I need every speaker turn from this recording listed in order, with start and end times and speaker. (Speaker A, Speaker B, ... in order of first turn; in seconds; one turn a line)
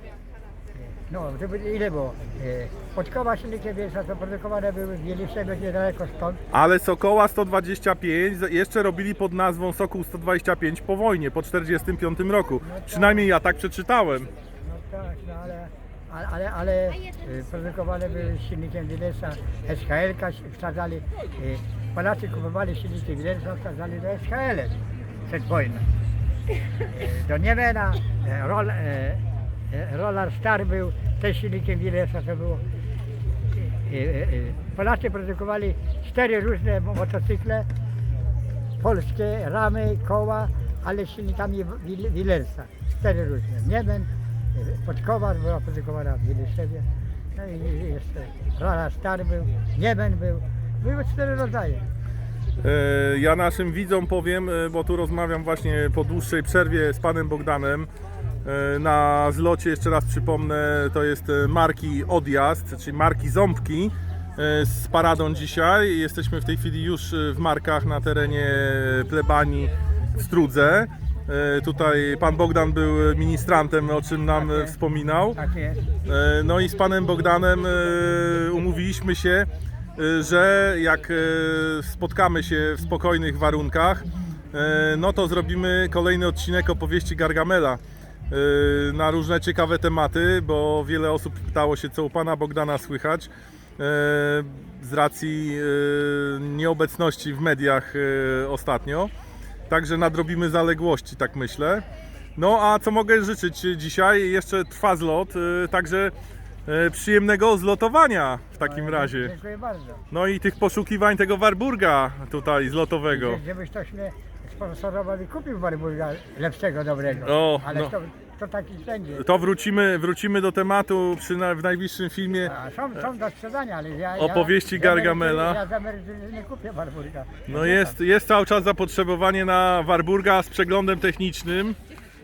Speaker A: 0.8-6.4
Speaker B: 6.5-14.3
Speaker A: 12.6-13.3
Speaker A: 14.6-25.9
Speaker A: 26.9-32.6
Speaker A: 33.6-37.7
Speaker A: 38.8-51.9
Speaker B: 52.6-57.9
Speaker B: 58.4-75.4
Speaker A: 74.3-74.8
Speaker A: 75.3-75.8
Speaker B: 76.0-99.1
Speaker B: 99.7-101.8
Speaker B: 102.3-106.1
Speaker B: 106.7-109.3
Speaker A: 108.6-110.0
Speaker B: 110.1-113.4
Speaker A: 113.1-119.2
Speaker B: 117.2-117.9
Speaker B: 119.2-122.5
Speaker A: 122.4-128.0
Speaker B: 124.2-125.6
Speaker B: 127.5-131.8